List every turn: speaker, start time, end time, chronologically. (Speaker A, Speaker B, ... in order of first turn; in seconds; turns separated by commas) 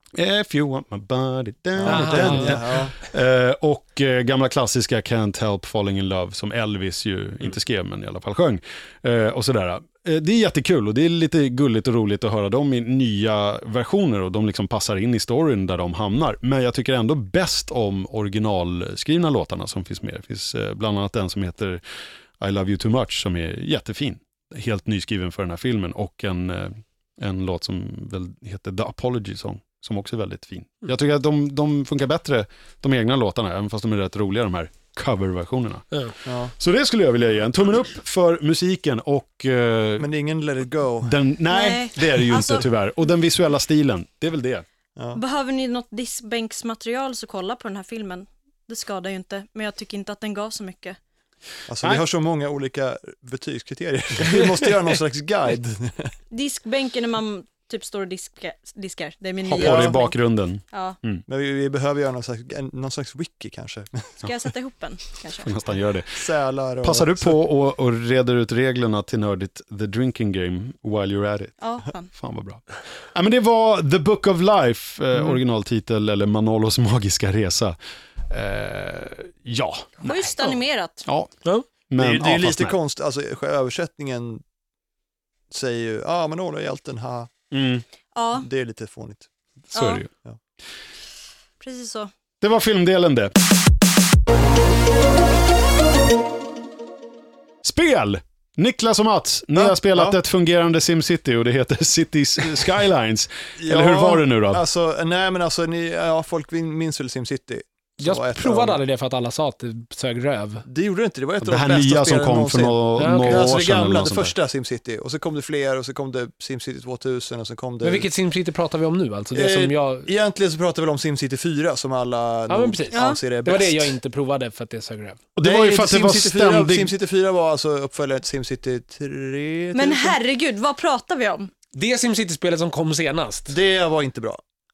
Speaker A: 0.1-21.8, Speaker B: 1.8-2.9, Speaker C: 1.9-2.6, Speaker A: 22.4-35.9, Speaker B: 36.2-36.5, Speaker A: 36.5-40.1, Speaker B: 40.0-41.1, Speaker A: 41.0-44.6, Speaker D: 41.5-42.7, Speaker D: 45.1-51.0, Speaker B: 51.7-56.1, Speaker D: 56.3-60.1, Speaker A: 59.4-61.2, Speaker B: 59.6-59.9, Speaker D: 60.7-61.0, Speaker B: 61.3-64.1, Speaker D: 64.2-65.5, Speaker A: 65.4-66.2, Speaker B: 66.2-67.4, Speaker A: 66.8-77.8, Speaker D: 71.6-72.1, Speaker A: 78.3-81.3, Speaker D: 80.0-81.0, Speaker A: 81.9-82.8, Speaker B: 82.0-84.4, Speaker B: 85.5-87.3, Speaker A: 87.5-87.8, Speaker D: 88.1-88.5, Speaker B: 88.4-89.3, Speaker A: 89.7-90.1, Speaker D: 89.7-90.0, Speaker D: 91.6-92.1, Speaker A: 92.4-93.3, Speaker A: 97.6-104.6, Speaker B: 99.5-100.2, Speaker B: 103.6-108.8, Speaker C: 108.0-110.6, Speaker B: 110.6-118.1, Speaker A: 111.4-114.3, Speaker C: 113.0-113.5, Speaker C: 117.8-120.1, Speaker B: 119.3-123.9, Speaker C: 122.5-125.2, Speaker D: 122.9-123.2, Speaker A: 125.3-126.9, Speaker B: 125.4-130.2, Speaker D: 129.7-131.5, Speaker C: 131.7-133.5, Speaker B: 133.5-134.4